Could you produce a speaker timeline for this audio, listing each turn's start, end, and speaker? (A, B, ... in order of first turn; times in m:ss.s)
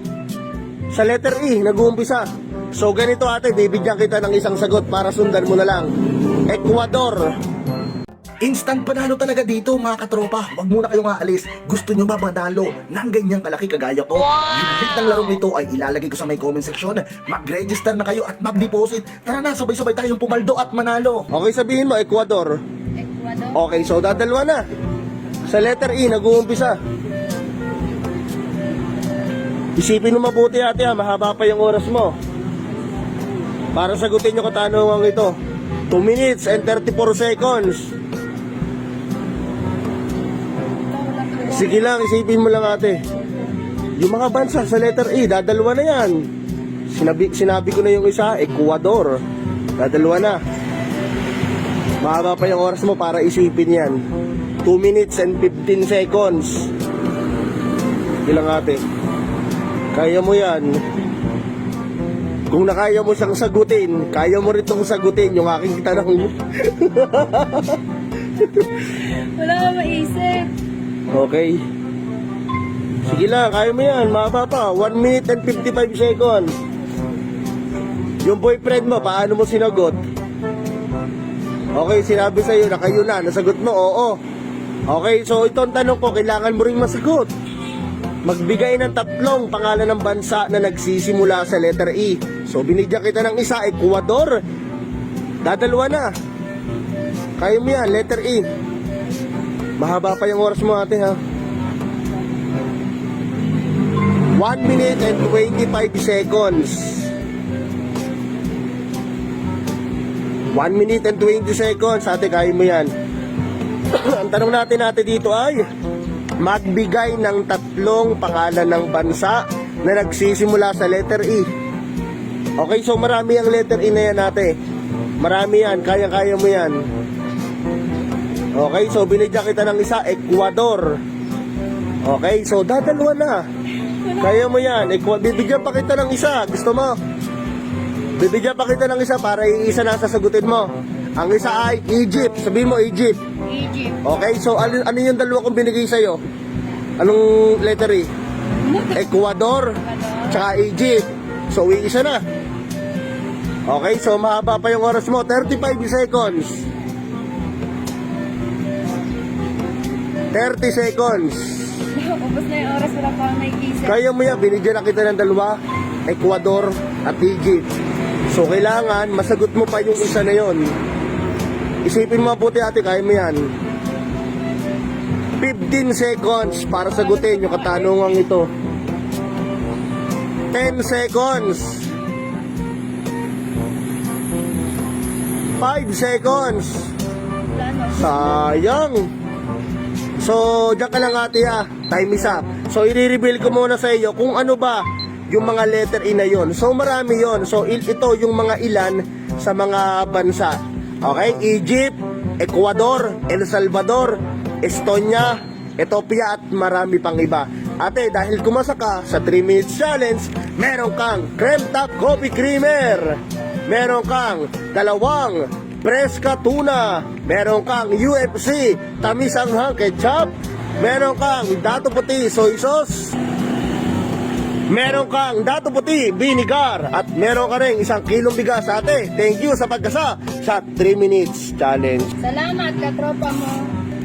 0:00.9-0:05.9 A
0:06.5-0:07.3 A
0:08.4-0:21.3 B
0:21.3-0:22.6 A
0:23.0-0:23.6 C
0:23.5-0:24.6 A
0:25.5-0:26.8 A
0:29.8-0:32.1 A
0:33.8-0:35.3 A
0:35.9-0:37.9 A
0:40.9-0:41.9 C
0:41.5-0:43.0 A
0:44.0-0:46.3 A
0:46.9-0:49.2 A
0:49.8-0:50.4 A
0:52.0-0:54.0 A
0:54.6-0:56.7 A
0:58.2-0:58.8 A
0:59.9-1:00.8 A
1:02.5-1:07.8 A
1:08.4-1:08.7 A
1:09.0-1:10.5 C
1:11.1-1:11.6 A
1:13.0-1:16.5 A
1:18.2-1:20.0 A
1:21.8-1:24.2 A
1:24.9-1:27.3 A
1:28.2-1:34.4 A
1:35.4-1:36.1 A
1:37.4-1:38.5 A
1:39.8-1:41.2 A
1:44.4-1:47.1 A
1:50.5-1:52.9 A
1:53.9-1:55.6 A
1:56.4-2:01.5 A
2:02.6-2:04.6 A
2:05.2-2:06.8 A
2:08.5-2:11.0 A
2:12.0-2:13.4 A
2:14.1-2:17.0 A
2:18.2-2:23.2 A
2:23.4-2:24.0 C
2:24.0-2:26.2 A
2:27.0-2:28.1 A
2:28.6-2:29.1 C
2:28.9-2:29.8 A
2:29.8-2:30.4 C
2:30.3-2:32.2 A
2:33.7-2:36.6 A
2:40.3-2:41.8 A
2:41.9-2:44.0 C
2:43.8-2:47.7 A
2:48.3-2:50.7 A
2:51.8-2:53.5 A
2:55.4-2:58.5 A
2:57.0-2:58.2 C
3:00.5-3:01.9 A
3:05.6-3:06.9 A
3:07.5-3:08.3 C
3:07.9-3:09.1 A
3:10.2-3:43.2 A
3:44.7-3:52.1 A
3:52.2-3:53.8 C